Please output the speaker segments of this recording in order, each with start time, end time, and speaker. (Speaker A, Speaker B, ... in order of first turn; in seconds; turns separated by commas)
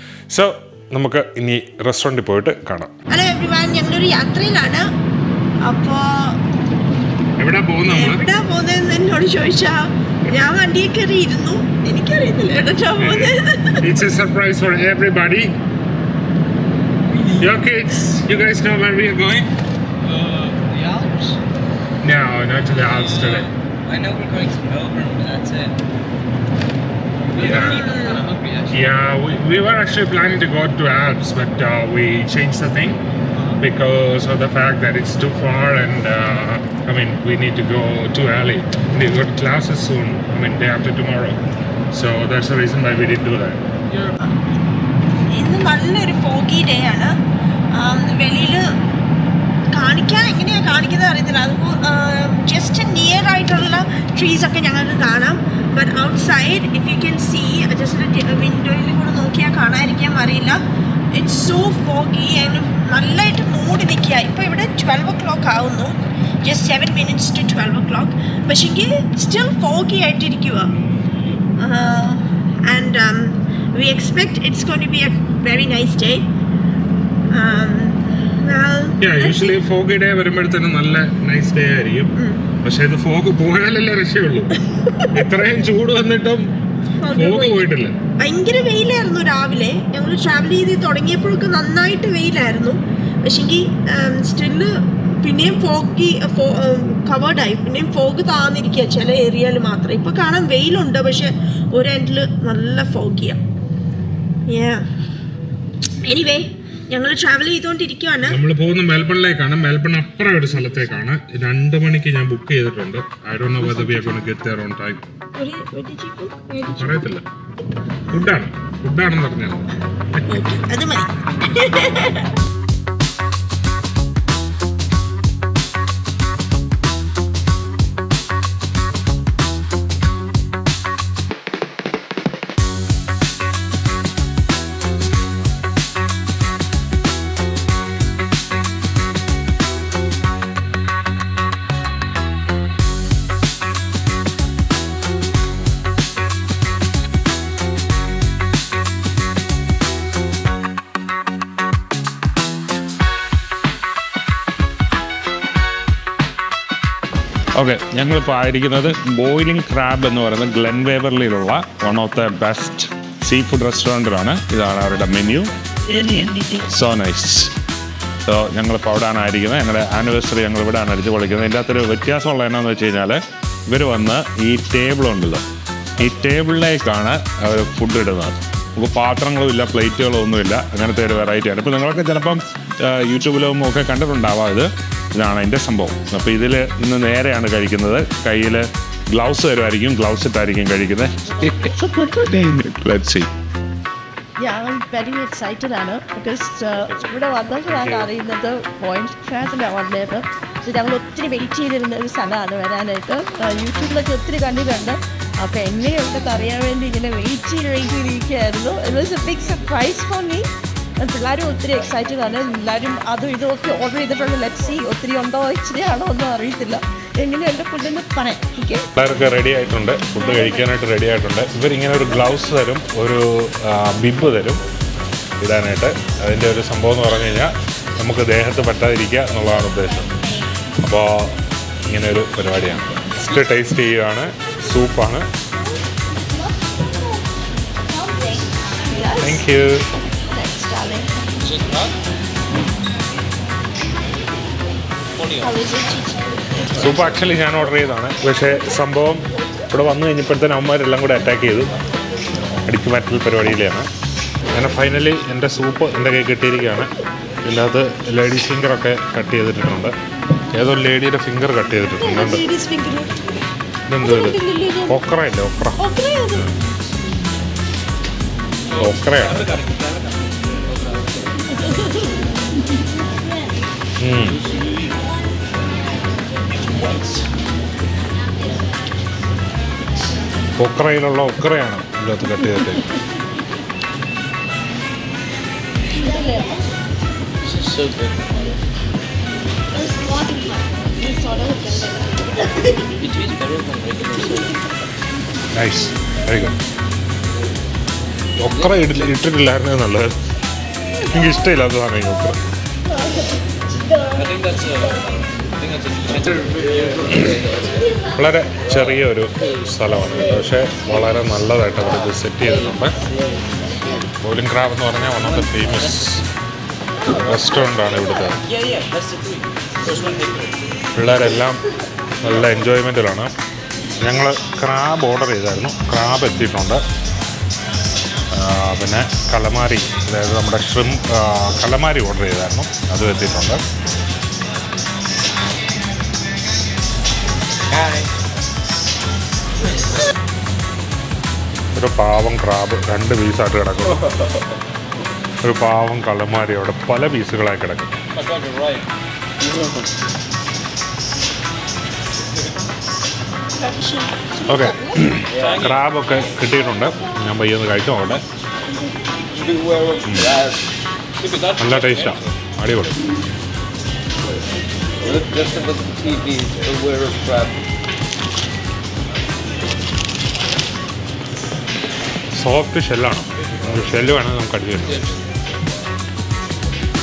Speaker A: 0.3-2.9, Speaker B: 3.1-4.9, Speaker B: 5.6-6.4, Speaker A: 7.4-8.2, Speaker B: 7.9-13.8, Speaker A: 13.0-15.5, Speaker A: 17.2-19.5, Speaker C: 20.0-21.4, Speaker A: 22.0-23.5, Speaker C: 22.9-25.8, Speaker C: 27.2-28.9, Speaker A: 27.4-27.8, Speaker B: 27.4-28.2, Speaker A: 28.7-33.0, Speaker A: 33.6-43.6, Speaker B: 45.3-47.1, Speaker B: 47.7-48.6, Speaker B: 49.7-60.6, Speaker B: 61.1-70.7, Speaker B: 71.6-76.3, Speaker B: 77.3-79.6, Speaker A: 79.0-86.5, Speaker B: 82.2-82.4, Speaker B: 87.0-87.7, Speaker A: 87.0-88.0, Speaker B: 88.2-103.4, Speaker B: 104.5-104.9, Speaker B: 106.0-108.4, Speaker A: 108.3-115.0, Speaker B: 115.3-117.1, Speaker A: 116.8-117.2, Speaker A: 118.1-120.4, Speaker B: 120.3-122.3, Speaker A: 157.6-167.5, Speaker A: 168.2-175.4, Speaker A: 176.0-193.3, Speaker D: 194.4-210.5, Speaker A: 197.6-198.1, Speaker D: 211.0-218.9, Speaker A: 218.9-224.6, Speaker A: 225.4-230.1, Speaker A: 230.8-231.3, Speaker A: 231.8-235.3, Speaker D: 238.9-239.3, Speaker A: 239.2-239.8, Speaker D: 240.3-241.1, Speaker C: 241.4-241.9, Speaker B: 245.5-245.9, Speaker A: 246.7-251.7, Speaker A: 252.7-253.9, Speaker A: 254.5-256.9, Speaker A: 257.4-259.9, Speaker A: 260.5-262.4, Speaker B: 262.0-263.2, Speaker A: 263.9-265.8, Speaker B: 264.0-265.0, Speaker B: 265.8-266.4, Speaker A: 268.8-269.5, Speaker A: 274.0-274.4, Speaker A: 280.6-282.8, Speaker D: 286.0-286.4, Speaker C: 287.4-288.4, Speaker D: 291.0-292.0, Speaker C: 292.9-294.7, Speaker A: 295.5-296.6, Speaker A: 298.4-300.1, Speaker A: 301.1-302.4, Speaker C: 304.1-307.8, Speaker A: 308.1-312.9, Speaker A: 314.2-316.2, Speaker A: 317.1-318.4, Speaker A: 320.9-321.6, Speaker A: 322.2-323.3, Speaker A: 324.0-326.8, Speaker A: 328.3-333.6, Speaker C: 337.7-338.1, Speaker A: 341.7-344.1, Speaker A: 345.4-347.9, Speaker C: 348.1-348.9, Speaker C: 349.4-349.9, Speaker A: 354.5-358.2, Speaker C: 355.3-355.7, Speaker C: 359.3-360.6, Speaker A: 360.1-360.3, Speaker C: 361.2-362.1, Speaker A: 361.6-363.0, Speaker C: 365.0-367.6, Speaker A: 372.3-375.1